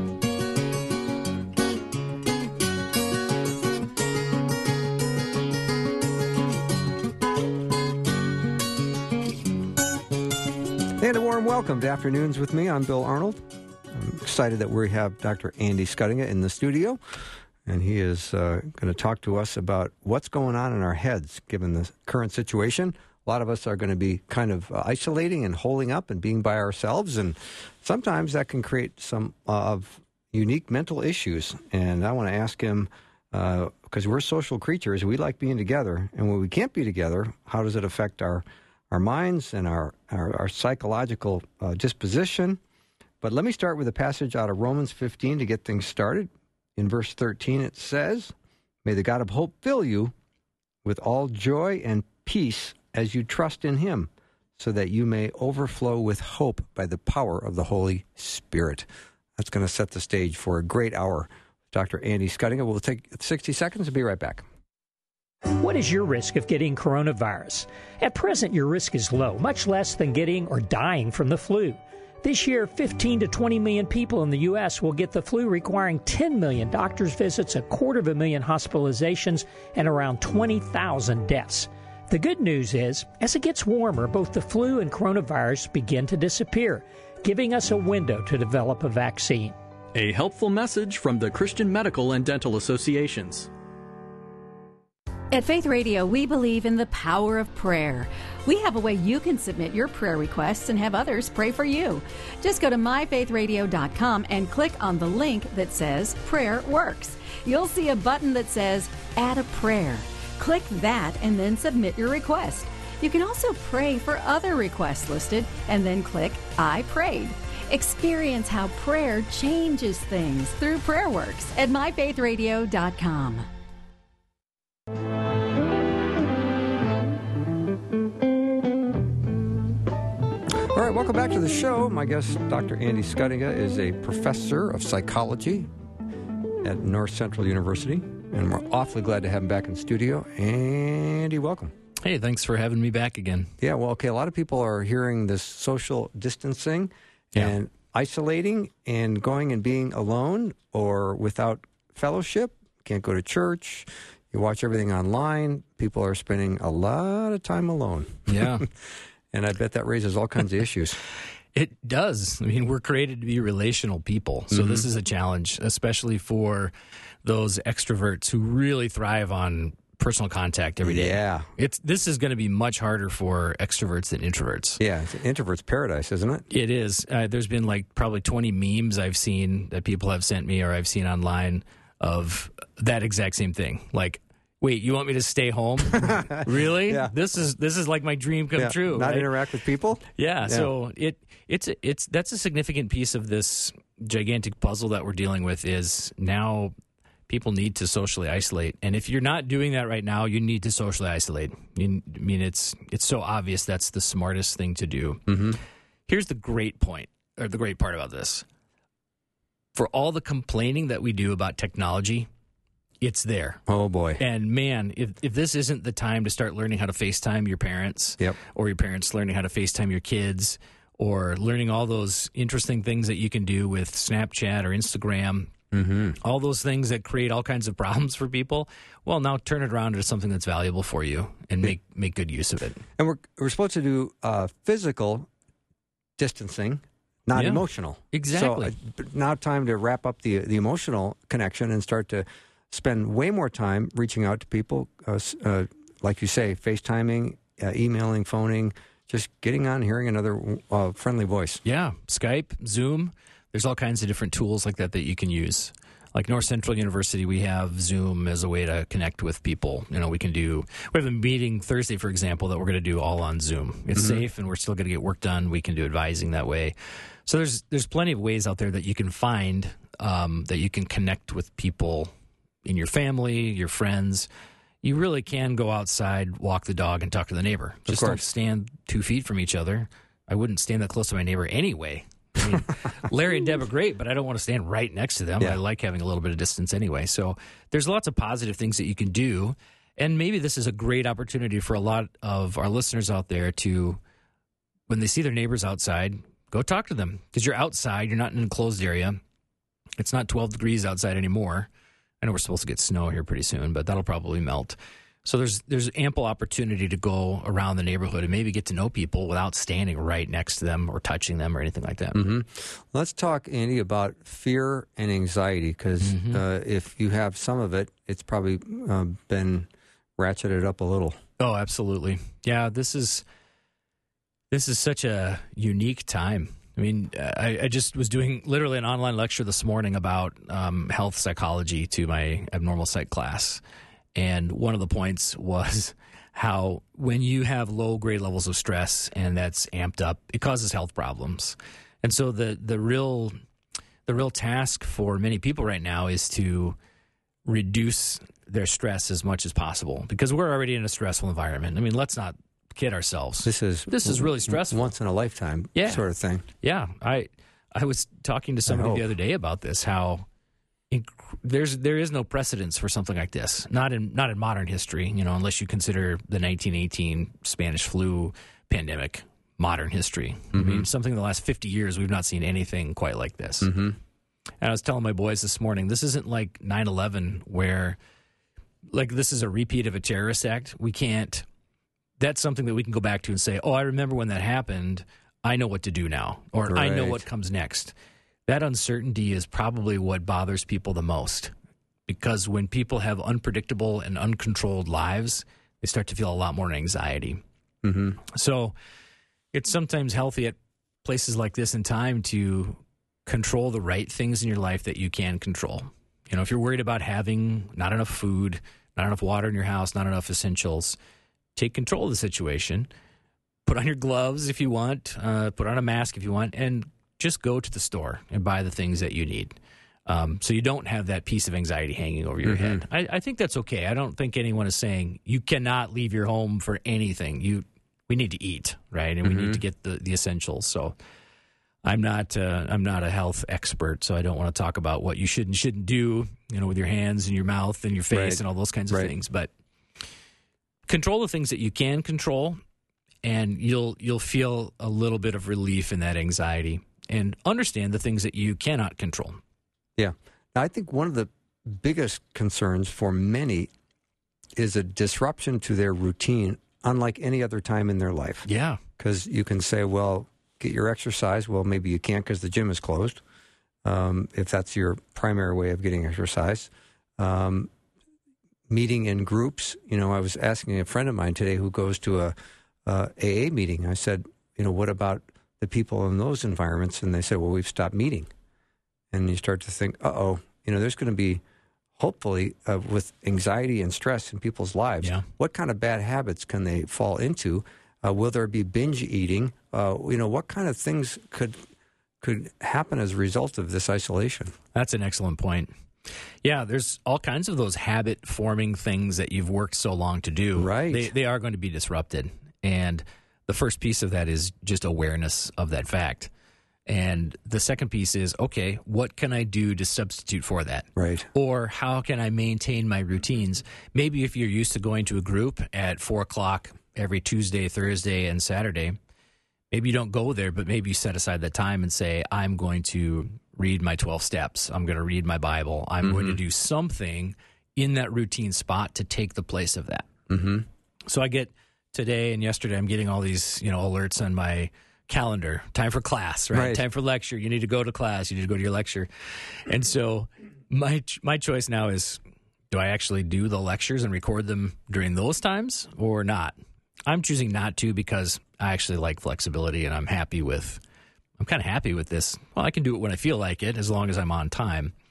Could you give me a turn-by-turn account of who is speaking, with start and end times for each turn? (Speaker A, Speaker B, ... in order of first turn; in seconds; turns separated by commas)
Speaker A: 11.0-17.0, Speaker A: 17.6-42.6, Speaker A: 43.2-48.3, Speaker A: 48.8-50.1, Speaker A: 50.8-64.5, Speaker B: 65.6-89.5, Speaker C: 89.9-93.5, Speaker D: 95.3-123.5, Speaker A: 130.6-135.7, Speaker A: 136.6-141.7, Speaker E: 142.0-143.5, Speaker A: 143.6-158.7, Speaker E: 158.3-158.6, Speaker A: 159.3-161.0, Speaker E: 161.5-166.7, Speaker A: 164.5-164.9, Speaker E: 167.2-174.8, Speaker A: 170.8-171.5, Speaker A: 174.8-176.4, Speaker E: 176.5-189.3, Speaker A: 185.9-187.1, Speaker A: 188.6-190.7, Speaker E: 190.1-196.7, Speaker E: 197.3-205.3, Speaker A: 205.3-205.6, Speaker E: 206.1-208.4, Speaker E: 209.7-212.3, Speaker E: 213.0-213.6, Speaker A: 213.7-214.2, Speaker E: 214.2-225.5, Speaker A: 225.7-226.2, Speaker E: 226.2-232.8, Speaker A: 233.0-235.3, Speaker A: 236.2-251.6, Speaker E: 237.3-238.7, Speaker E: 251.6-272.1, Speaker A: 263.9-264.2, Speaker E: 272.6-274.3, Speaker E: 274.8-294.0, Speaker A: 277.9-278.2, Speaker E: 294.9-299.2, Speaker E: 300.0-301.7, Speaker E: 302.2-312.2, Speaker A: 312.1-321.2, Speaker E: 316.0-316.4, Speaker E: 321.4-323.2, Speaker E: 324.5-333.6, Speaker E: 334.1-343.4, Speaker E: 344.1-346.8, Speaker E: 347.4-354.9, Speaker A: 353.4-356.4, Speaker E: 355.7-356.0, Speaker E: 356.6-360.2, Speaker A: 358.7-359.0, Speaker E: 360.9-373.7, Speaker A: 370.5-370.9, Speaker A: 373.6-373.9, Speaker E: 374.6-378.0, Speaker E: 378.9-381.4, Speaker E: 382.2-387.9, Speaker A: 386.7-387.2, Speaker E: 388.5-391.5, Speaker E: 392.1-397.4, Speaker A: 397.8-398.2, Speaker E: 398.2-398.7, Speaker E: 399.5-411.0, Speaker E: 411.6-412.9, Speaker E: 413.6-430.9, Speaker A: 422.4-422.8, Speaker A: 429.2-429.6, Speaker E: 431.8-439.5, Speaker A: 438.1-439.1, Speaker E: 440.9-442.6, Speaker E: 443.2-449.4, Speaker A: 450.0-453.7, Speaker A: 454.6-458.5, Speaker E: 458.4-458.8, Speaker A: 459.0-463.2, Speaker A: 463.8-467.7, Speaker A: 468.7-472.3, Speaker A: 472.9-478.3, Speaker A: 479.1-481.4, Speaker A: 482.0-491.6, Speaker A: 492.2-494.5, Speaker E: 494.7-506.3, Speaker A: 500.6-501.1, Speaker E: 506.9-519.0, Speaker A: 510.9-511.3, Speaker E: 519.7-530.1, Speaker A: 526.0-526.4, Speaker A: 530.3-530.6, Speaker E: 531.1-542.2, Speaker A: 536.5-536.8, Speaker E: 542.7-550.8, Speaker E: 551.4-555.0